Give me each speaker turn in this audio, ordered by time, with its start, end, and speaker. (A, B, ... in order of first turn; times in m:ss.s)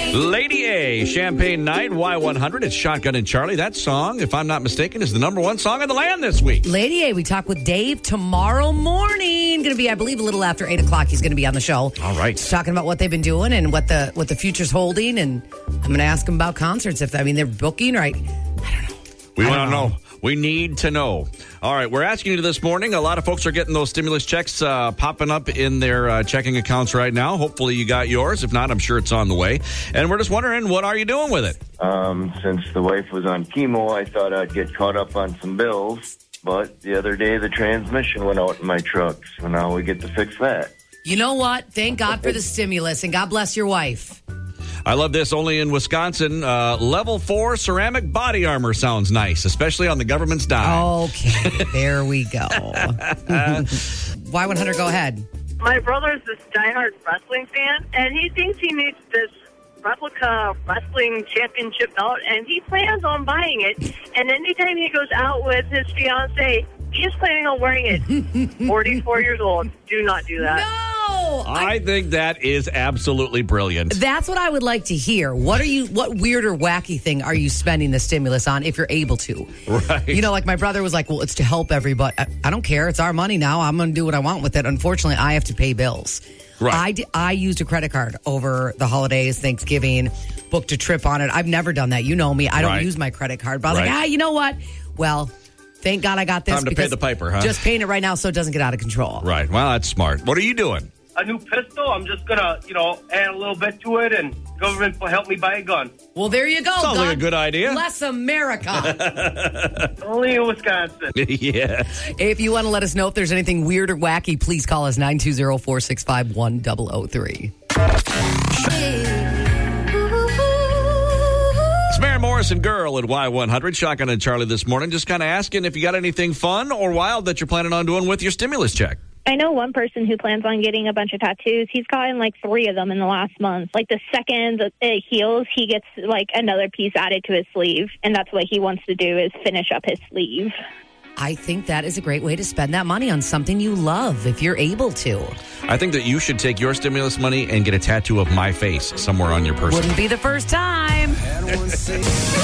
0:00.1-0:06.6 A
0:06.6-0:19.9 B
0:12.0-0:12.5 A
0:19.4-0:31.6 A
0:31.8-0:40.7 C
0:41.0-0:44.2 B
0:44.9-0:50.9 A
0:50.6-0:55.2 B
0:52.8-0:53.7 A
0:55.6-0:59.3 D
0:59.8-1:10.5 D
1:10.4-1:11.8 B
1:11.4-1:14.0 A
1:13.9-1:19.5 B
1:19.7-1:20.2 A
1:20.1-1:39.3 B
1:32.6-1:32.9 A
1:33.7-1:34.0 A
1:36.5-1:37.6 A
1:39.2-1:40.9 A
1:41.2-1:45.9 E
1:46.1-1:49.0 B
1:46.8-1:47.8 A
1:48.8-1:49.9 A
1:50.0-1:51.1 E
1:51.2-1:52.0 A
1:52.0-1:57.5 B
1:58.6-1:59.4 B
2:00.2-2:01.6 B
2:01.9-2:09.0 A
2:09.3-2:20.5 F
2:21.2-2:25.4 B
2:25.7-2:29.9 A
2:29.7-2:31.2 B